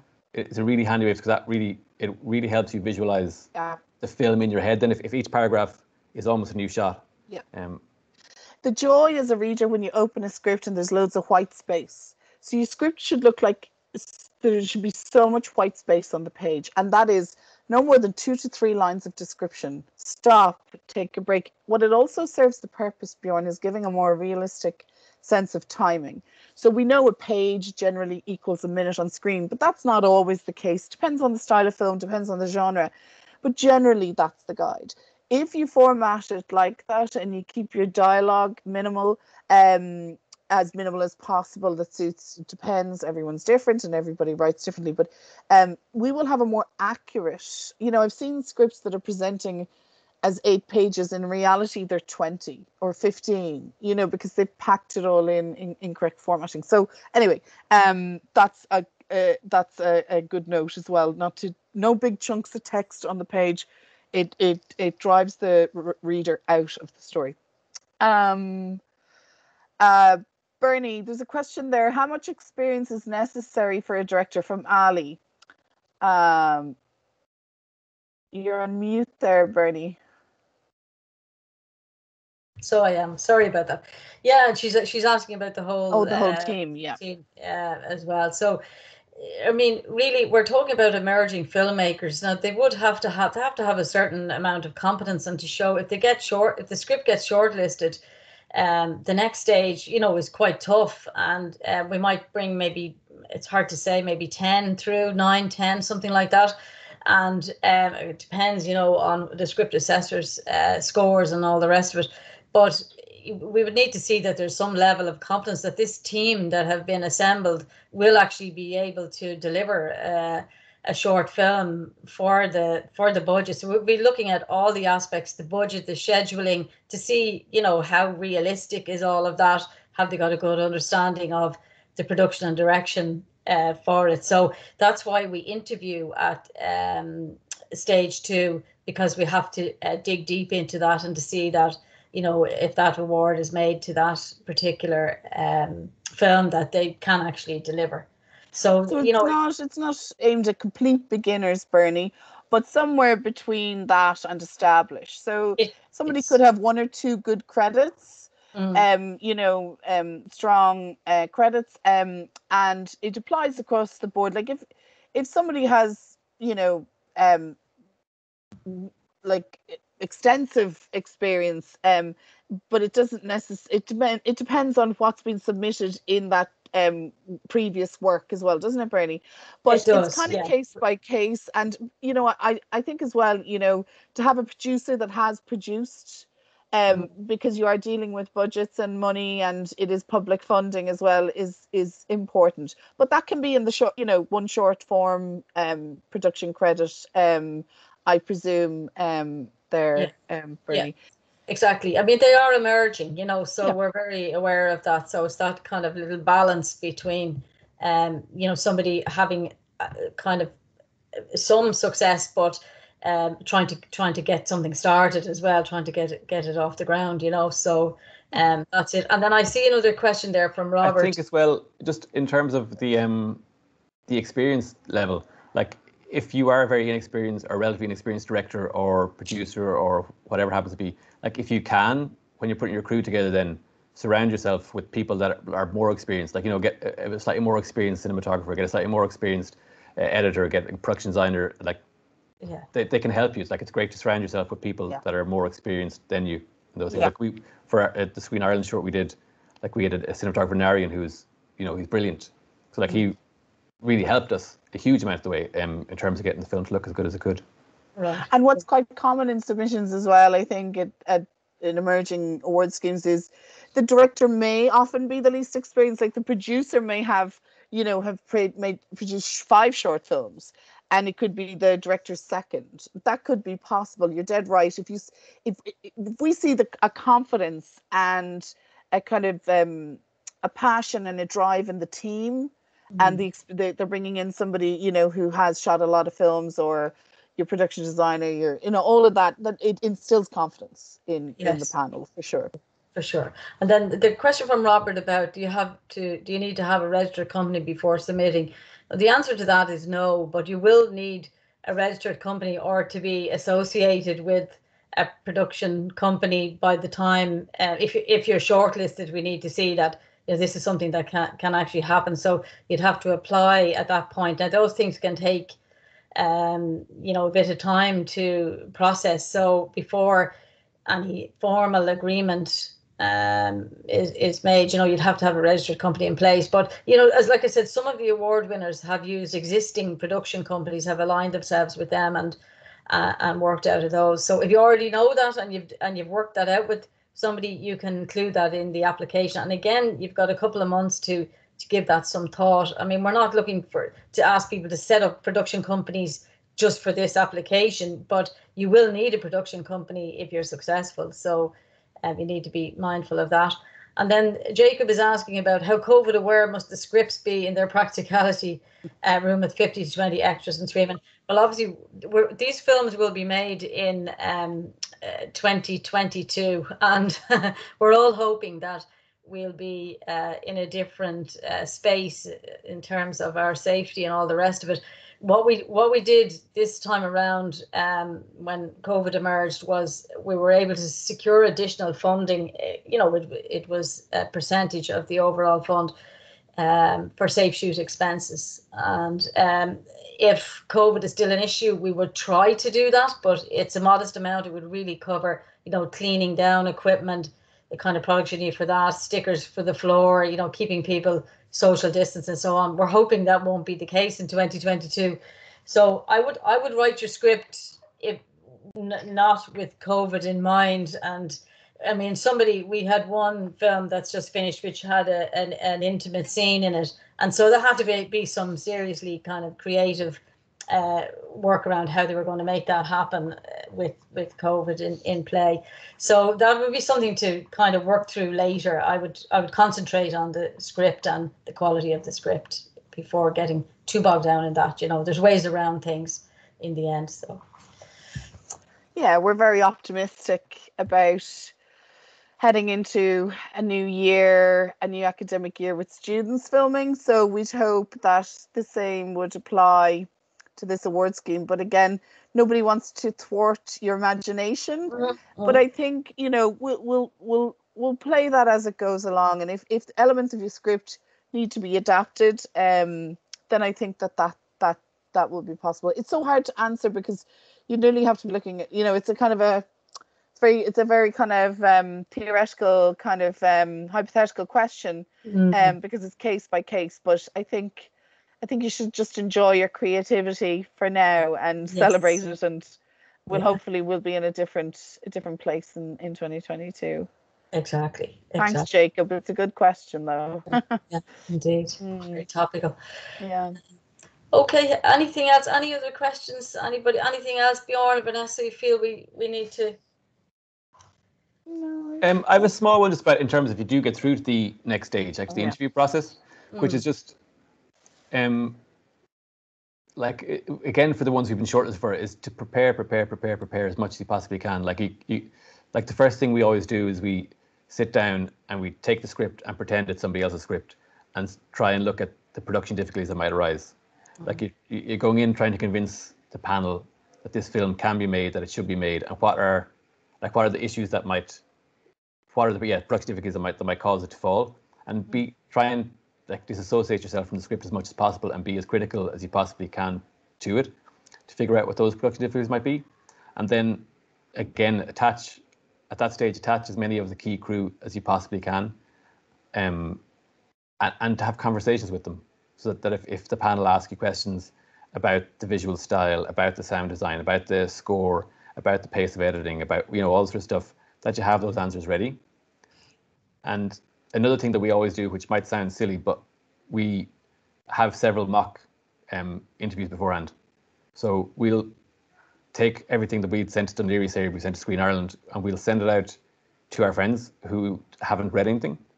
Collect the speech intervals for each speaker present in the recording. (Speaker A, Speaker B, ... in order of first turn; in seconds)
Speaker A: 0.3-3.5, 4.0-7.8, 220.8-223.4, 224.1-241.8, 242.7-253.2, 253.8-257.4, 502.0-507.1, 508.1-508.6, 510.0-523.7, 524.2-531.4, 532.3-540.7, 541.3-548.7, 549.5-550.0, 550.8-562.2, 563.4-567.1, 567.7-570.3, 570.9-571.7, 572.5-576.2, 576.7-578.8
Speaker B: 8.6-49.7, 50.2-67.3, 68.0-68.8, 69.8-75.2, 76.0-76.8, 78.3-80.0, 85.9-87.0, 148.9-164.6, 165.1-167.6, 168.6-172.1, 172.7-200.9, 258.2-292.5, 438.9-441.5, 442.4-469.7, 470.4-482.8, 483.3-487.1, 488.4-490.8, 491.8-492.2, 493.2-493.6, 501.5-502.1, 505.3-505.5
Speaker C: 82.6-88.6, 89.2-98.0, 98.5-106.5, 107.0-149.3, 155.6-156.3, 158.5-158.8, 179.7-180.5, 201.5-210.5, 211.3-221.2, 258.0-258.3, 282.9-283.2, 291.4-291.7, 292.9-315.6, 316.1-320.3, 320.9-332.4, 332.9-351.5, 352.0-385.9, 386.6-437.4, 454.9-455.6, 475.2-475.7, 481.7-482.2, 487.5-488.7, 490.5-492.8, 494.3-499.8, 506.5-506.8